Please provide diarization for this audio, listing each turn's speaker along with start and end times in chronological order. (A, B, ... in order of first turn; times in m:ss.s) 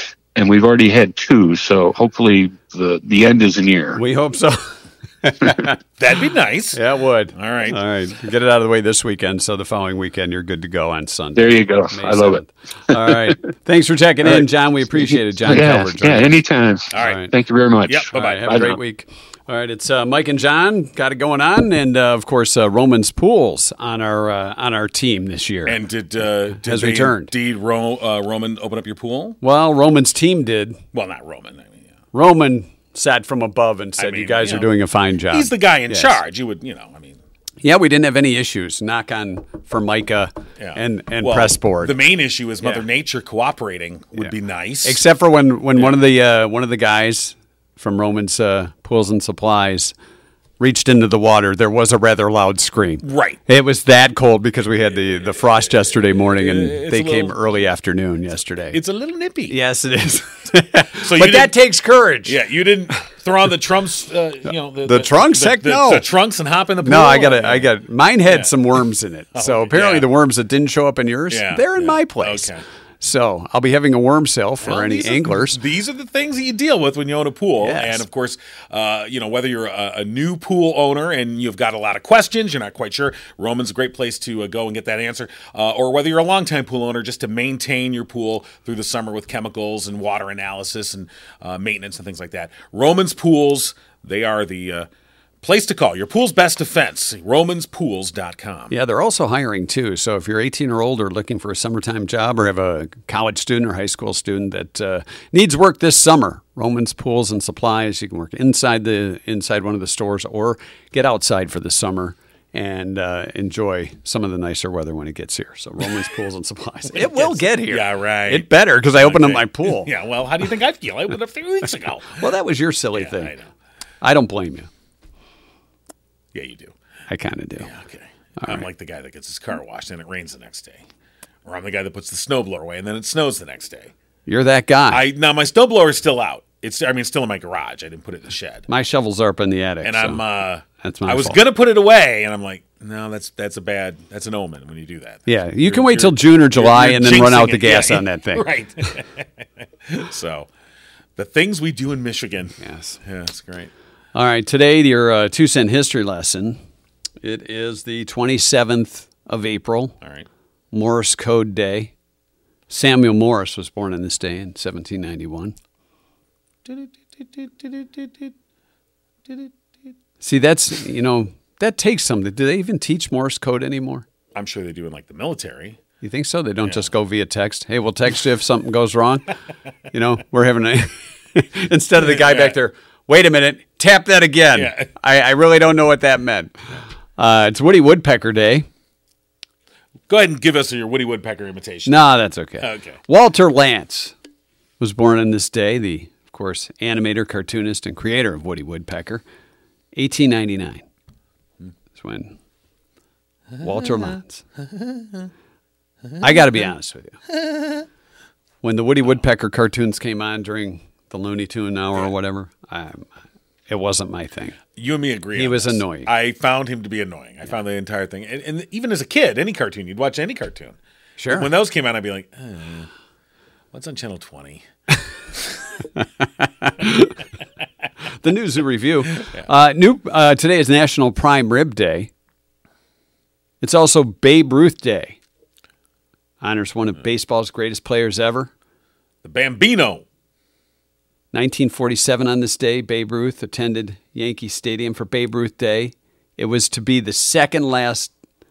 0:00.3-0:04.0 A
0:04.0-0:05.8 B
0:06.0-0:06.8 C
0:06.7-0:16.3 B
0:07.3-0:07.8 C
0:11.3-0:13.3 A
0:15.0-0:18.8 A
0:16.9-0:17.2 C
0:17.0-0:17.3 B
0:17.9-0:18.6 C
0:18.1-0:25.8 B
0:25.6-0:29.4 C
0:26.6-0:27.3 B
0:29.4-0:30.8 B
0:30.9-0:31.9 C
0:32.1-0:36.2 B
0:34.0-0:34.7 C
0:35.3-0:37.2 C
0:37.6-0:41.9 B
0:40.6-0:45.0 C
0:44.8-0:49.9 B
0:50.6-0:58.8 B
0:53.0-0:53.4 C
0:56.2-0:57.4 C
0:58.7-0:59.6 C
0:59.5-1:02.3 B
1:01.0-1:01.5 C
1:02.2-1:07.7 C
1:04.8-1:06.0 B
1:06.8-1:12.5 B
1:08.3-1:08.5 C
1:09.3-1:10.1 C
1:11.3-1:12.6 C
1:13.0-1:15.6 B
1:14.6-1:34.9 C
1:17.6-1:18.0 B
1:35.4-1:38.7 C
1:38.7-1:59.9 B
1:56.9-2:02.2 C
2:02.1-2:03.3 B
2:02.9-2:03.5 C
2:04.0-2:04.7 B
2:06.3-2:06.7 C
2:07.1-2:07.7 B
2:07.6-2:10.8 C
2:11.4-2:13.9 C
2:14.3-2:15.0 B
2:14.9-2:18.7 C
2:18.7-2:20.2 B
2:19.8-2:29.3 C
2:20.8-2:21.4 B
2:25.3-2:28.4 B
2:29.9-2:30.5 C
2:31.2-2:33.7 C
2:32.6-2:33.0 B
2:34.1-2:36.6 B
2:37.2-2:40.0 B
2:40.7-2:41.9 B
2:42.7-2:45.5 B
2:46.6-2:48.3 C
2:49.3-2:49.5 C
2:50.2-2:54.0 B
2:54.3-2:55.8 C
2:56.0-2:59.3 B
2:56.6-2:56.9 C
2:59.9-3:08.7 B
3:02.0-3:02.6 C
3:04.5-3:04.9 C
3:10.1-3:12.0 C
3:11.8-3:14.1 B
3:12.6-3:13.0 C
3:14.8-3:19.2 B
3:19.9-3:20.8 B
3:21.9-3:22.4 B
3:23.6-3:24.4 B
3:24.6-3:25.3 C
3:26.2-3:27.2 B
3:27.3-3:27.8 C
3:28.6-3:33.1 B
3:33.7-3:34.6 B
3:34.8-3:40.8 C
3:35.4-3:36.1 B
3:41.2-3:41.5 B
3:41.3-3:42.9 C
3:43.7-3:44.6 C
3:46.6-3:47.2 B
3:48.2-3:52.1 B
3:53.6-3:55.2 B
3:56.4-3:58.5 B
3:59.2-4:00.0 C
4:01.3-4:08.1 B